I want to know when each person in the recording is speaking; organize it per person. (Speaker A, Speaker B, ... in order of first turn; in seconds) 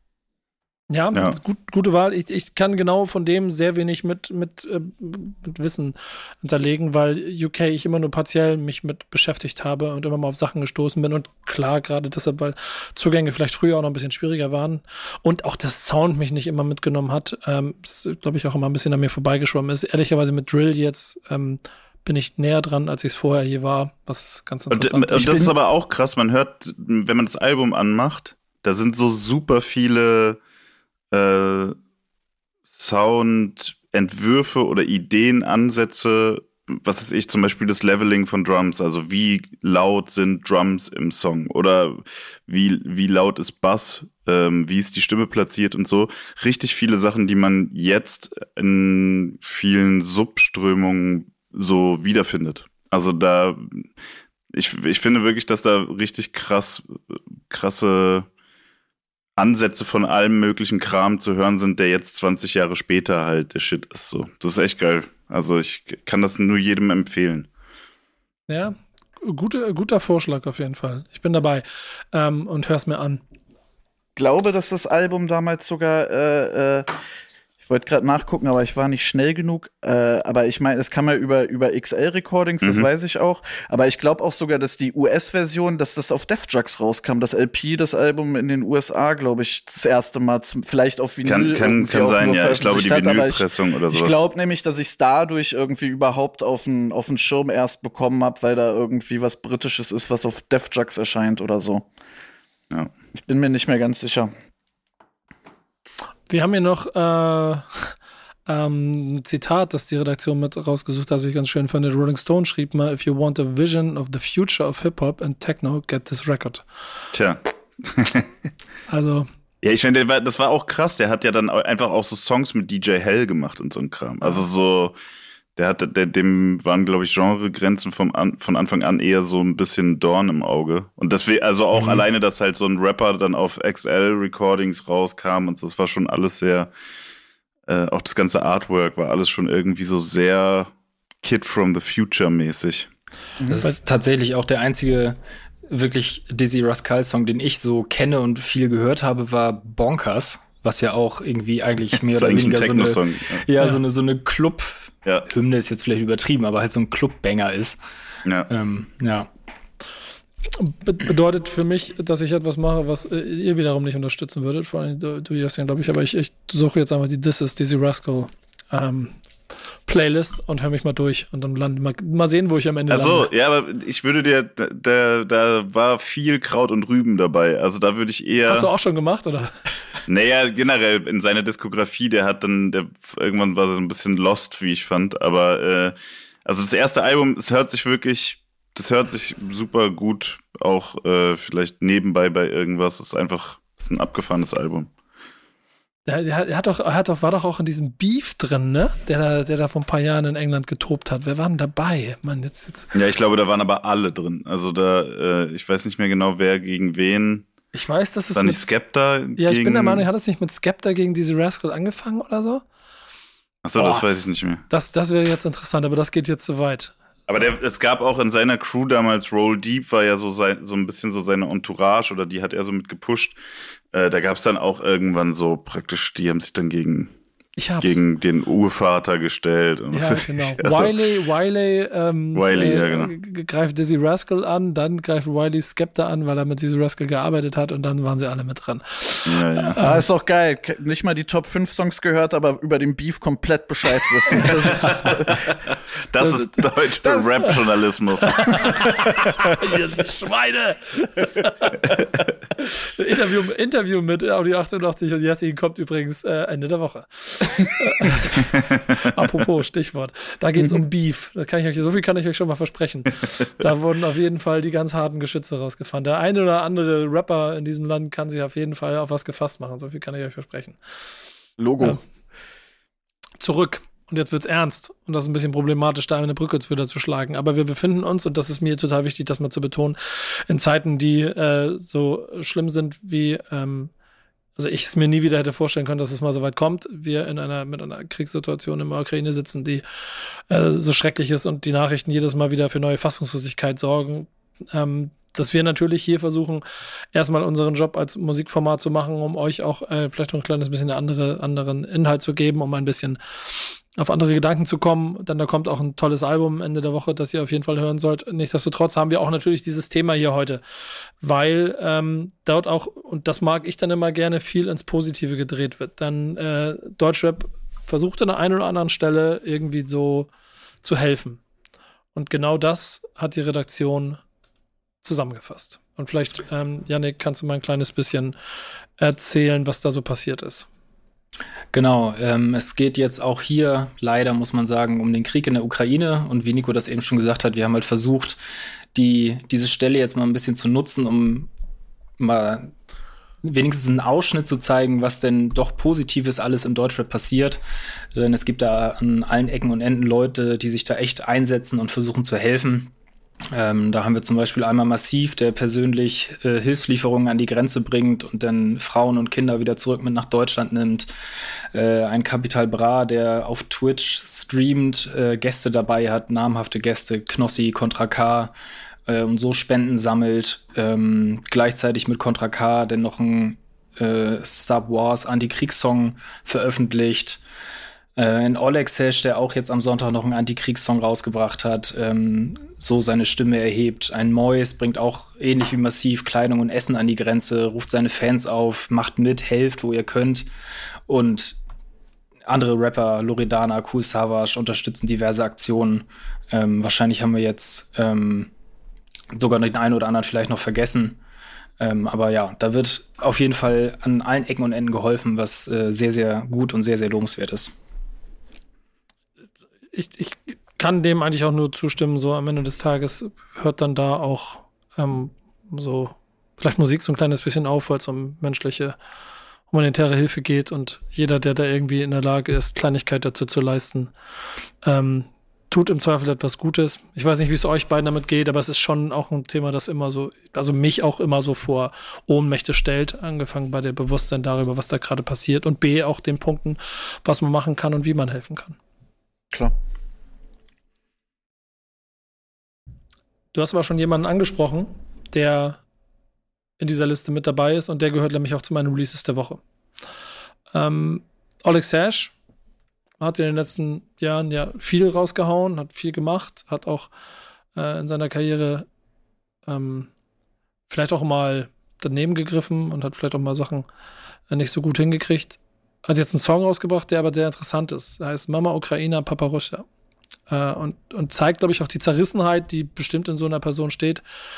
Speaker A: 0.9-25.4, 68.5-73.2, 106.3-107.9, 108.5-116.6, 118.9-119.3, 160.5-169.1, 169.9-173.3, 178.5-179.6, 196.1-202.9, 207.7-208.7, 209.3-212.6, 213.8-214.0, 214.7-217.5, 227.6-228.0, 229.9-240.0, 246.2-247.5, 248.3-251.8, 252.8-270.8, 273.4-283.9, 284.6-310.6, 311.2-320.3, 320.8-321.4, 322.1-324.2, 325.0-328.3, 329.0-330.7, 409.9-418.9, 419.7-424.1, 424.8-438.8, 443.5-445.8, 446.8-449.6, 450.7-452.3, 453.2-457.1, 457.7-458.9, 459.6-460.1, 460.9-463.9, 464.5-469.9, 470.5-474.2
Speaker B: 24.7-30.4, 31.1-31.8, 32.7-53.9, 54.5-58.3, 59.4-67.5, 82.6-82.9, 91.2-94.2, 117.1-118.3, 119.6-125.0, 125.5-136.7, 137.7-140.7, 141.2-142.9, 152.0-153.4, 158.2-158.5, 172.9-178.7, 180.1-185.9, 186.4-194.9, 202.9-207.4, 208.3-210.0, 213.6-214.6, 217.3-223.3, 223.9-227.1, 227.8-230.9, 232.3-233.1, 239.3-239.8, 246.1-248.8
Speaker C: 25.1-25.5, 74.2-76.9, 77.6-101.8, 103.1-104.3, 143.4-143.6, 239.8-245.4, 247.1-247.5, 271.6-272.0
Speaker D: 143.5-154.7, 155.3-157.8, 158.5-159.3, 331.7-338.4, 338.9-341.5, 342.2-342.7, 343.4-347.6, 348.1-352.9, 353.5-361.1, 361.7-368.5, 369.1-377.4, 378.2-390.4, 391.1-391.6, 392.5-398.5, 399.3-401.2, 401.8-407.7